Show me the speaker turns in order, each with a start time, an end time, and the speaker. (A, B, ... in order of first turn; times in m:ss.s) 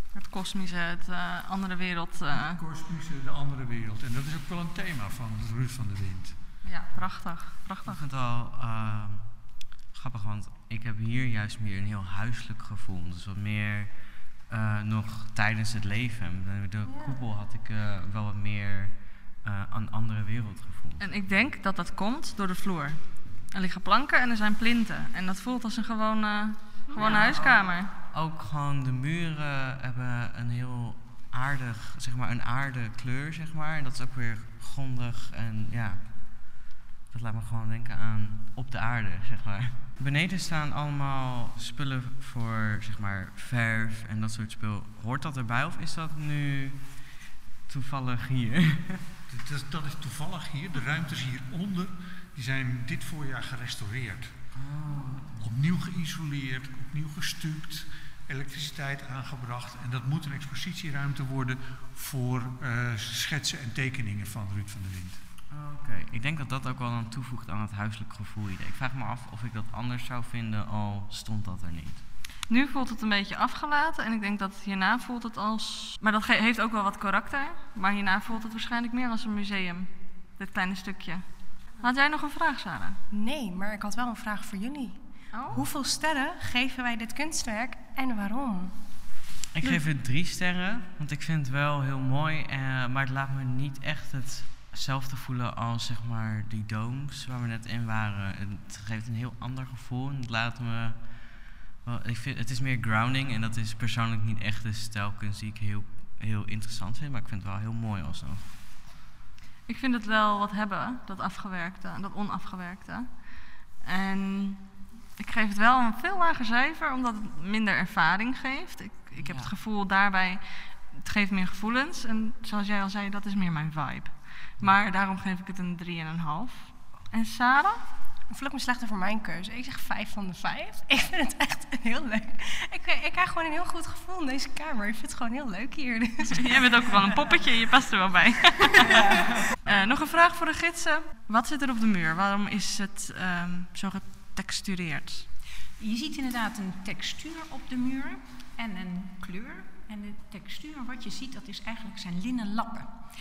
0:00.1-0:02.6 A
0:02.3-0:06.4 B
0:06.6-0:08.0 A
0:07.8-0:21.4 C
0:16.8-0:17.2 D
0:21.0-0:27.9 A
0:27.0-0:49.0 C
0:49.3-0:54.4 B
0:54.5-0:55.3 C
0:55.4-1:05.2 B
1:05.5-1:12.0 C
1:12.5-1:23.0 A
1:23.1-1:28.7 D
1:25.3-1:25.6 A
1:29.6-1:48.5 C
1:49.7-2:07.8 A
1:59.2-1:59.5 C
2:08.3-2:17.0 D
2:16.3-2:25.3 A
2:18.9-2:19.2 D
2:25.8-2:32.9 E